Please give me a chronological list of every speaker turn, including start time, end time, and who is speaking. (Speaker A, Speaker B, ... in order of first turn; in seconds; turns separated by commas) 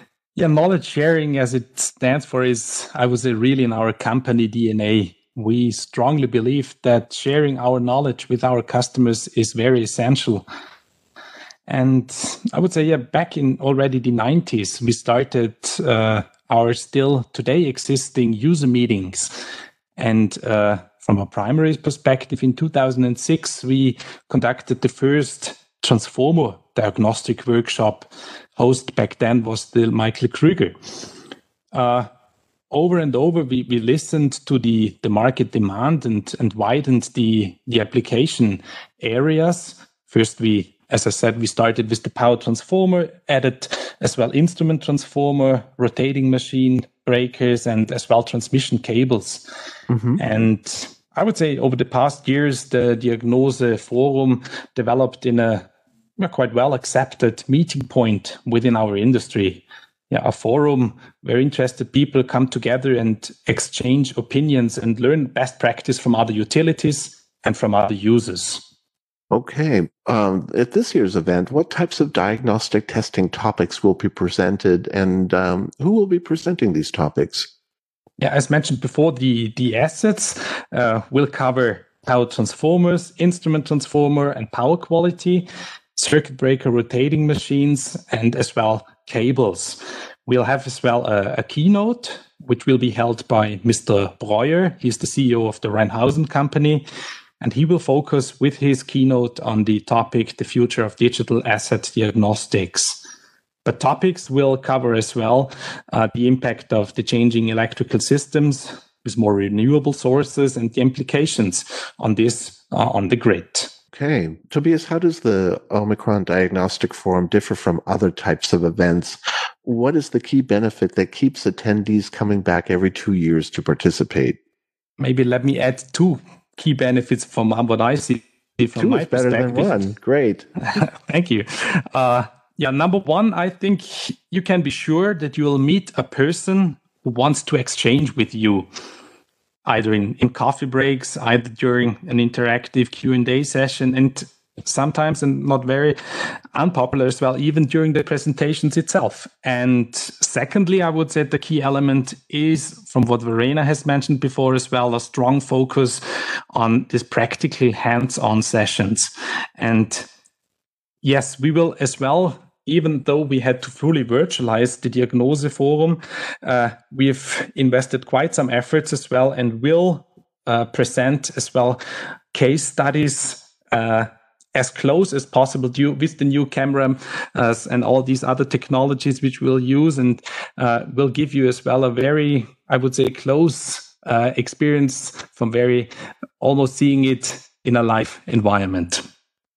Speaker A: 0.3-10.4, Speaker A: 11.7-19.4, Speaker A: 20.0-31.1, Speaker A: 31.7-32.1, Speaker A: 32.7-49.4, Speaker B: 49.9-50.2, Speaker A: 50.2-55.7, Speaker A: 56.2-68.6, Speaker B: 69.3-77.5, Speaker A: 78.2-96.8, Speaker A: 97.4-103.0, Speaker A: 103.6-113.7, Speaker B: 113.9-124.4, Speaker A: 125.0-129.8, Speaker B: 128.8-130.5, Speaker A: 130.7-138.7, Speaker A: 139.7-145.9, Speaker A: 146.5-156.0, Speaker A: 156.5-160.1, Speaker A: 161.0-171.8, Speaker A: 172.3-185.9, Speaker A: 186.4-189.0